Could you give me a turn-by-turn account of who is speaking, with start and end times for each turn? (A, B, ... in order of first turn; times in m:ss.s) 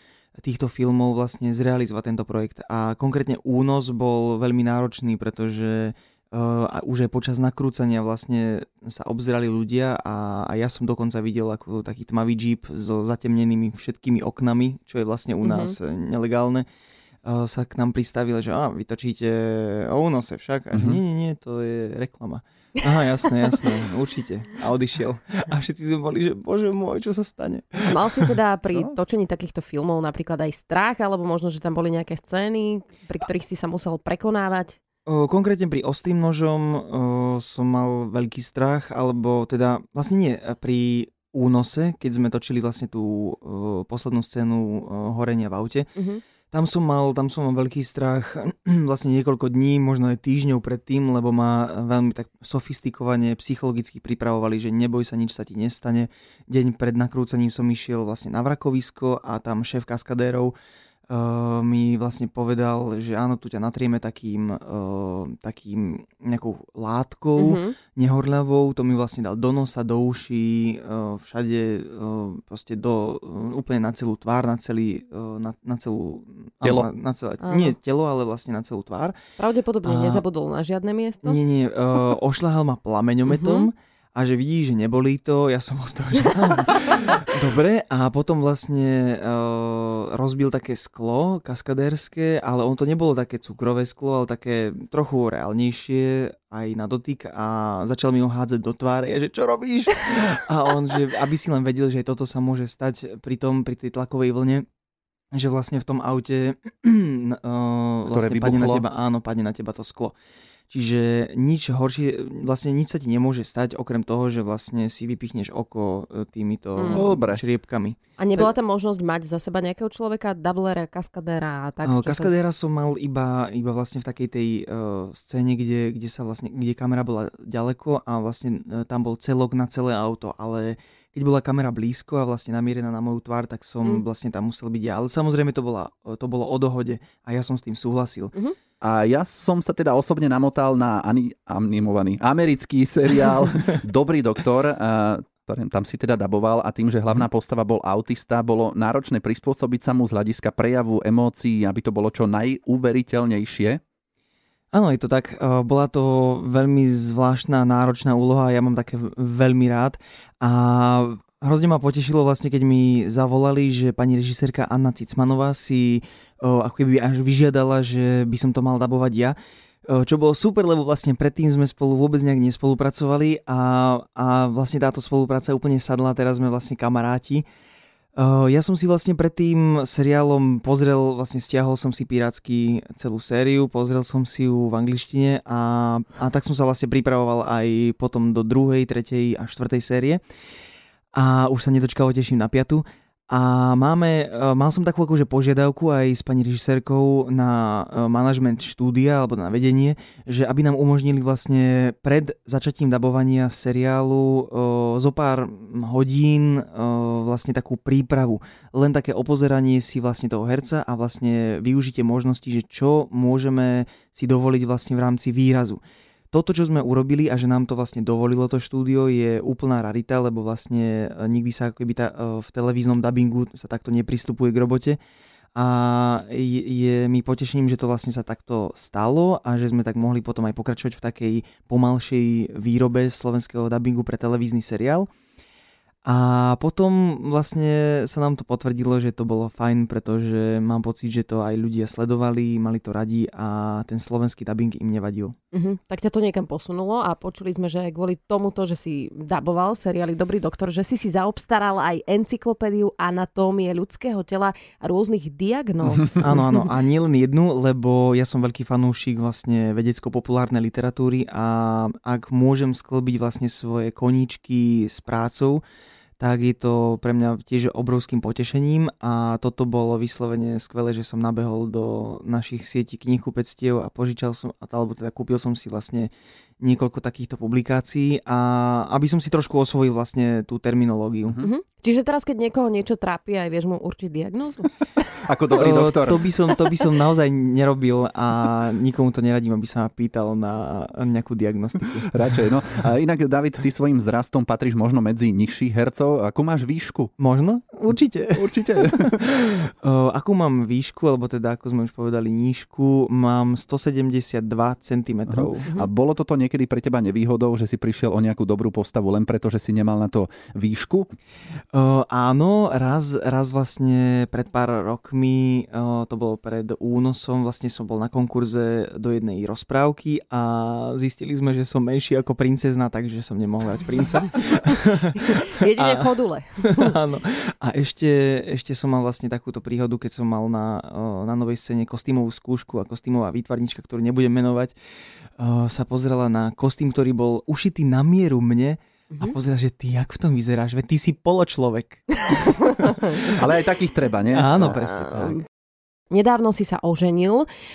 0:00.4-0:16.6 A
0:15.4-0:15.8 B
0:17.2-0:28.3 A
0:20.7-0:21.0 C
0:27.9-0:34.8 B
0:35.0-0:45.9 A
0:46.0-0:46.2 B
0:46.5-1:00.5 A
1:01.1-1:19.2 A
1:07.4-1:07.8 B
1:16.6-1:16.9 C
1:17.4-1:17.8 B
1:19.4-1:21.4 B
1:19.8-1:20.2 A
1:21.2-1:44.6 A
1:23.3-1:23.7 B
1:45.3-1:50.2 A
1:48.1-1:48.8 C
1:50.7-1:58.5 A
1:56.8-1:57.1 B
1:56.9-1:57.4 C
1:58.2-2:02.3 B
2:01.8-2:18.4 A
2:18.8-2:33.8 C
2:34.7-2:49.4 A
2:49.9-2:57.4 A
2:58.2-3:10.2 A
3:11.1-3:35.8 A
3:36.3-3:45.0 A
3:45.5-3:55.1 A
3:56.0-4:05.3 A
4:05.5-4:16.4 B
4:16.2-4:25.6 A
4:26.2-4:41.4 A
4:41.4-4:44.7 B
4:45.2-4:46.6 C
4:45.5-4:52.1 A
4:52.1-4:57.1 C
4:57.2-5:05.7 A
4:58.3-4:59.1 C
5:05.3-5:11.1 C
5:11.7-5:34.8 A
5:25.1-5:27.0 B
5:35.4-5:43.5 A
5:43.2-5:44.6 C
5:44.3-5:45.4 A
5:46.1-5:47.5 B